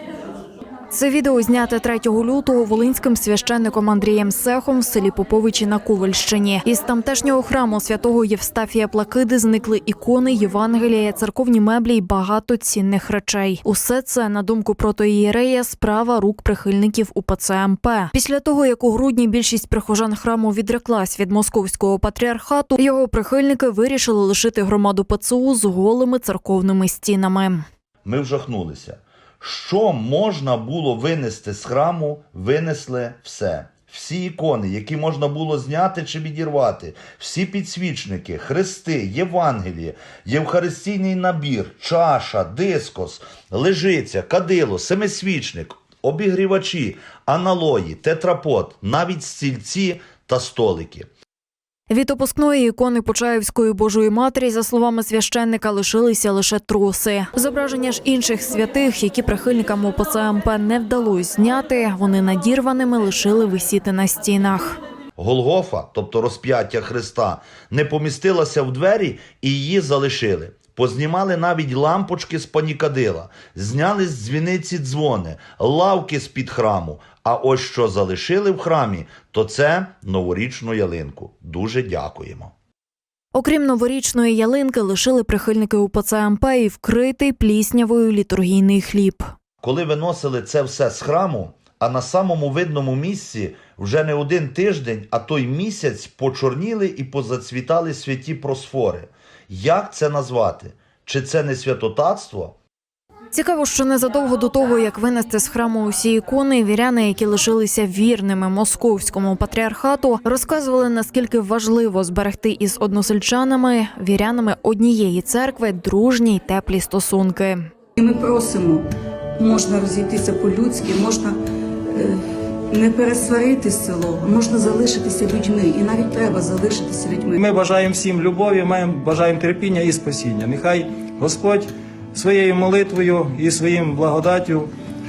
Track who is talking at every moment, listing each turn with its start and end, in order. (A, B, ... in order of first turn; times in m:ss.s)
0:00.9-0:27.6 A
0:28.0-0:51.1 B
0:51.9-1:04.8 A
1:05.2-1:22.5 B
1:23.3-1:29.3 A
1:29.6-1:42.6 B
1:43.3-1:57.6 A
1:58.0-2:01.4 C
2:01.9-2:07.4 C
2:07.4-2:14.7 D